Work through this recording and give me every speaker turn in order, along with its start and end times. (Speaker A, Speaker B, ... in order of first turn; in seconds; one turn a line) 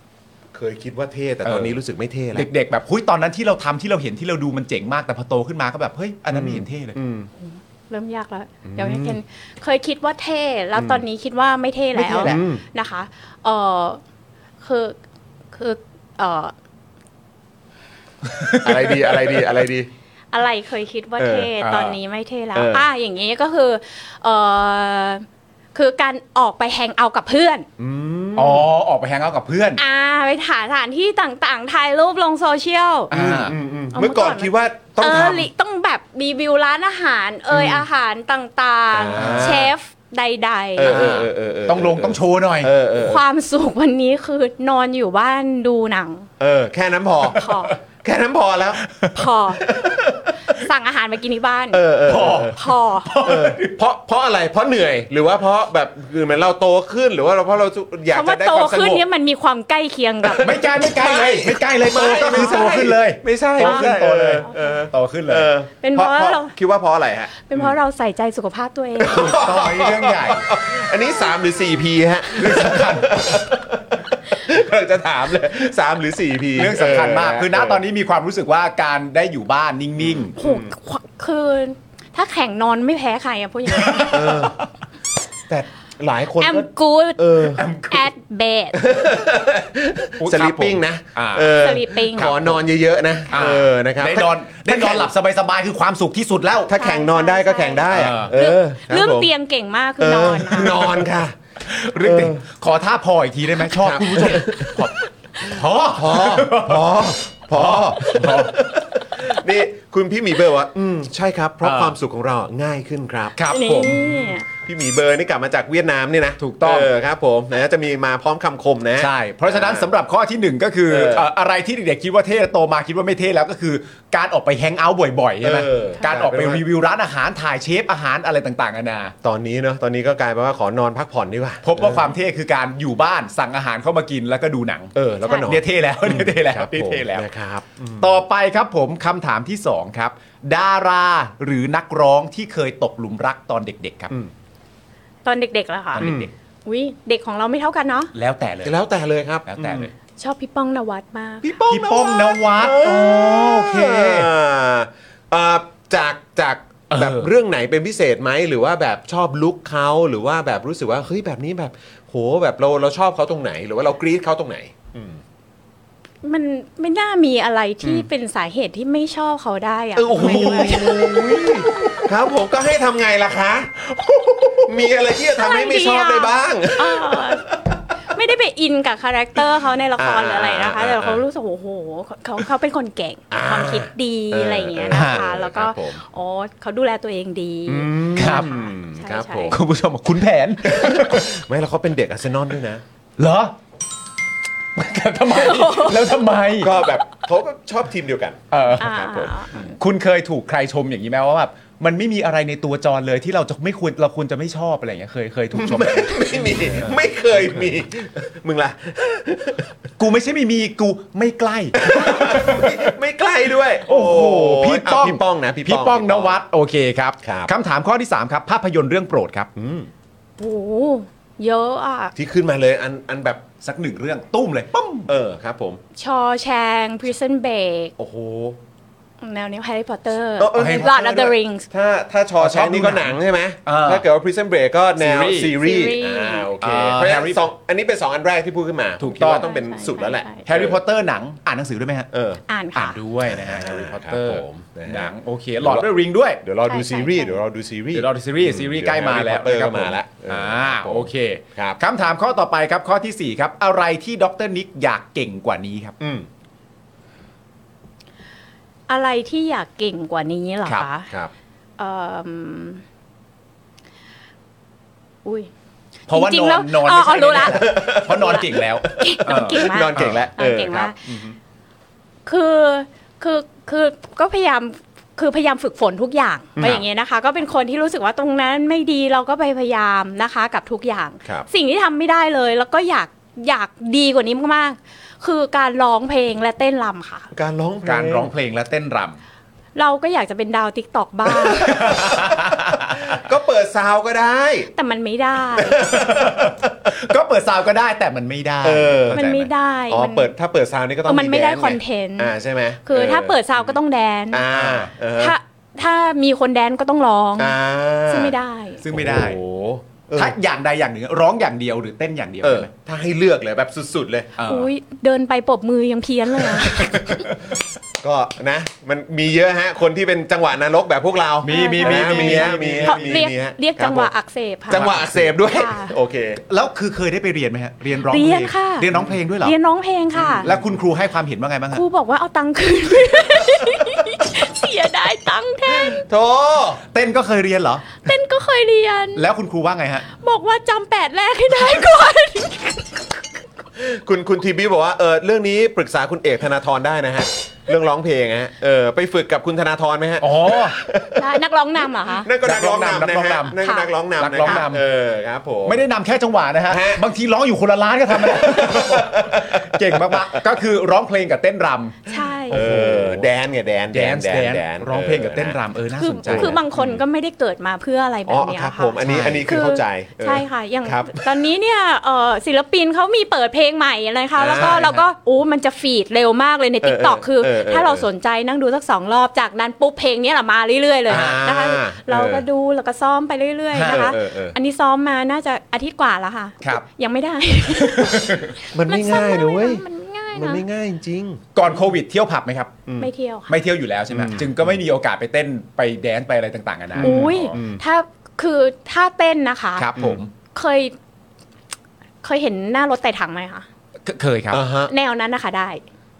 Speaker A: 0.5-2.5
Speaker B: 1.4-1.8
Speaker B: 2.3-7.0
Speaker A: 6.3-7.3
Speaker C: 7.4-14.0
Speaker A: 8.7-9.2
Speaker A: 10.8-11.0
Speaker B: 12.0-12.4
Speaker A: 12.0-12.6
Speaker C: 14.6-15.0
Speaker C: 15.5-16.5
Speaker B: 18.4-19.1
Speaker A: 18.5-19.9
Speaker C: 20.3-27.7
Speaker A: 21.2-21.5
Speaker B: 21.6-22.0
Speaker A: 22.5-22.9
Speaker A: 27.8-28.7
Speaker B: 28.4-29.8
Speaker C: 29.8-33.1
Speaker B: 33.1-33.5
Speaker A: 33.1-35.5
Speaker C: 33.9-41.0
Speaker A: 37.5-37.9
Speaker A: 38.9-39.7
Speaker B: 39.2-39.6
Speaker A: 40.8-43.2
Speaker B: 40.9-42.7
Speaker C: 43.0-46.3
Speaker A: 46.4-48.8
Speaker C: 47.2-47.8
Speaker C: 49.1-49.7
Speaker A: 49.6-50.2
Speaker C: 50.5-53.1
Speaker A: 51.7-52.6
Speaker B: 52.1-53.8
Speaker A: 53.2-59.0
Speaker C: 58.1-60.5
Speaker A: 60.2-67.7
Speaker B: 60.4-65.5
Speaker C: 62.1-62.7
Speaker C: 63.6-64.9
Speaker C: 65.8-66.5
Speaker C: 67.4-69.5
Speaker A: 69.0-77.8
Speaker B: 69.2-70.4
Speaker B: 72.4-73.2
Speaker B: 76.5-80.3
Speaker A: 80.0-80.7
Speaker C: 80.4-84.5
Speaker B: 83.8-84.6
Speaker A: 84.1-84.6
Speaker A: 85.5-87.7
Speaker C: 86.4-88.8
Speaker B: 87.5-88.1
Speaker A: 88.8-95.1
Speaker B: 90.2-91.5
Speaker C: 91.5-92.4
Speaker B: 92.2-92.6
Speaker B: 93.3-96.7
Speaker A: 96.7-99.3
Speaker C: 96.7-101.0
Speaker B: 97.9-98.3
Speaker A: 100.0-101.3
Speaker B: 101.7-106.9
Speaker A: 102.0-102.4
Speaker A: 103.7-104.9
Speaker A: 105.4-119.9
Speaker B: 107.5-108.6
Speaker B: 111.6-112.0
Speaker B: 113.4-113.7
Speaker C: 113.5-114.5
Speaker B: 116.4-116.9
Speaker B: 119.0-129.1
Speaker A: 120.9-121.3
Speaker A: 125.4-126.6
Speaker A: 129.2-132.1
Speaker B: 131.6-134.9
Speaker A: 134.9-138.2
Speaker C: 135.2-135.5
Speaker B: 135.5-137.3
Speaker B: 138.0-144.1
Speaker C: 145.2-146.1
Speaker B: 145.9-146.3
Speaker A: 146.0-146.3
Speaker C: 146.7-148.1
Speaker B: 148.1-148.8
Speaker A: 148.6-149.9
Speaker B: 149.5-149.9
Speaker C: 150.2-152.4
Speaker B: 151.4-154.3
Speaker A: 152.0-165.2
Speaker B: 156.9-157.3
Speaker C: 166.2-171.6
Speaker A: 170.0-173.8
Speaker B: 170.2-171.9
Speaker B: 173.9-174.7
Speaker A: 174.5-177.8
Speaker C: 175.4-177.4
Speaker C: 178.1-189.6
Speaker A: 180.0-181.2
Speaker A: 183.3-186.0
Speaker B: 184.9-185.2
Speaker A: 187.7-189.6
Speaker B: 188.2-188.5
Speaker B: 189.5-191.3
Speaker A: 190.6-192.8
Speaker B: 193.2-193.6
Speaker B: 194.8-196.8
Speaker C: 195.3-197.1
Speaker A: 196.6-199.6
Speaker B: 198.5-198.9
Speaker C: 198.8-199.8
Speaker B: 199.7-206.9
Speaker A: 205.5-209.7
Speaker B: 210.0-212.9
Speaker A: 211.8-216.4
Speaker B: 213.8-219.5
Speaker A: 217.2-217.5
Speaker A: 219.6-219.9
Speaker C: 220.4-222.1
Speaker A: 222.2-223.4
Speaker B: 223.6-225.1
Speaker A: 225.1-225.8
Speaker C: 226.0-227.9
Speaker A: 228.0-228.6
Speaker C: 229.2-231.7
Speaker A: 230.4-240.8
Speaker B: 230.6-230.9
Speaker B: 232.4-234.1
Speaker B: 235.0-235.6
Speaker C: 235.6-236.5
Speaker B: 236.6-237.4
Speaker B: 239.0-239.5
Speaker C: 239.3-240.5
Speaker B: 240.5-242.1
Speaker A: 242.1-242.4
Speaker C: 242.5-243.0
Speaker B: 242.7-246.4
Speaker A: 243.3-245.9
Speaker A: 246.4-251.8
Speaker C: 246.6-247.4
Speaker B: 247.9-256.0
Speaker A: 256.0-256.3
Speaker C: 258.9-261.1
Speaker C: 261.8-262.8
Speaker C: 265.2-265.5
Speaker B: 266.1-270.2
Speaker C: 266.1-271.2
Speaker A: 267.6-271.3
Speaker C: 272.3-287.3
Speaker A: 287.3-288.3
Speaker B: 287.8-289.2
Speaker C: 289.8-292.0
Speaker A: 291.3-294.7
Speaker B: 291.6-292.9
Speaker C: 294.8-295.8
Speaker A: 295.6-296.6
Speaker B: 295.9-299.5
Speaker A: 298.6-299.2
Speaker C: 299.1-300.3
Speaker A: 299.9-303.8
Speaker C: 301.1-302.3
Speaker C: 302.9-304.4
Speaker A: 304.3-305.4
Speaker B: 304.5-304.9
Speaker C: 305.1-308.8
Speaker A: 307.4-308.4
Speaker B: 308.8-309.4
Speaker A: 308.9-310.4
Speaker B: 310.2-312.7
Speaker A: 312.4-314.3
Speaker B: 314.4-314.7
Speaker C: 314.4-317.3
Speaker A: 318.0-324.1
Speaker B: 321.4-323.2
Speaker C: 321.5-325.9
Speaker A: 324.7-326.4
Speaker B: 324.7-325.3
Speaker B: 326.5-329.6
Speaker C: 328.0-330.5
Speaker A: 330.1-330.7
Speaker B: 330.4-331.8
Speaker C: 331.7-336.1
Speaker A: 335.8-336.8
Speaker B: 336.9-337.9
Speaker C: 338.0-339.3
Speaker B: 339.1-340.1
Speaker C: 340.2-343.2
Speaker A: 343.8-351.3
Speaker B: 350.2-350.8
Speaker C: 351.2-352.3
Speaker A: 352.1-355.8
Speaker B: 352.4-353.6
Speaker C: 353.5-354.7
Speaker B: 354.2-354.8
Speaker B: 355.6-363.3
Speaker A: 356.7-357.1
Speaker A: 358.1-360.4
Speaker C: 362.1-362.6
Speaker A: 362.5-365.6
Speaker B: 363.9-366.6
Speaker C: 365.9-390.6
Speaker A: 366.3-367.0
Speaker A: 368.3-371.3
Speaker B: 369.0-369.5
Speaker A: 374.4-374.9
Speaker B: 374.5-375.1
Speaker A: 376.8-378.1
Speaker A: 381.1-382.4
Speaker B: 381.1-381.5
Speaker B: 383.7-384.1
Speaker A: 383.8-384.6
Speaker B: 387.7-388.5
Speaker A: 388.8-389.8
Speaker A: 390.3-391.4
Speaker B: 391.6-392.8
Speaker C: 393.0-393.6
Speaker B: 393.5-397.5
Speaker A: 394.1-394.8
Speaker A: 396.9-397.8
Speaker C: 397.0-399.9
Speaker B: 399.8-400.3
Speaker C: 400.5-400.9
Speaker C: 402.2-403.7
Speaker B: 404.1-404.6
Speaker A: 404.5-404.9
Speaker C: 404.9-405.8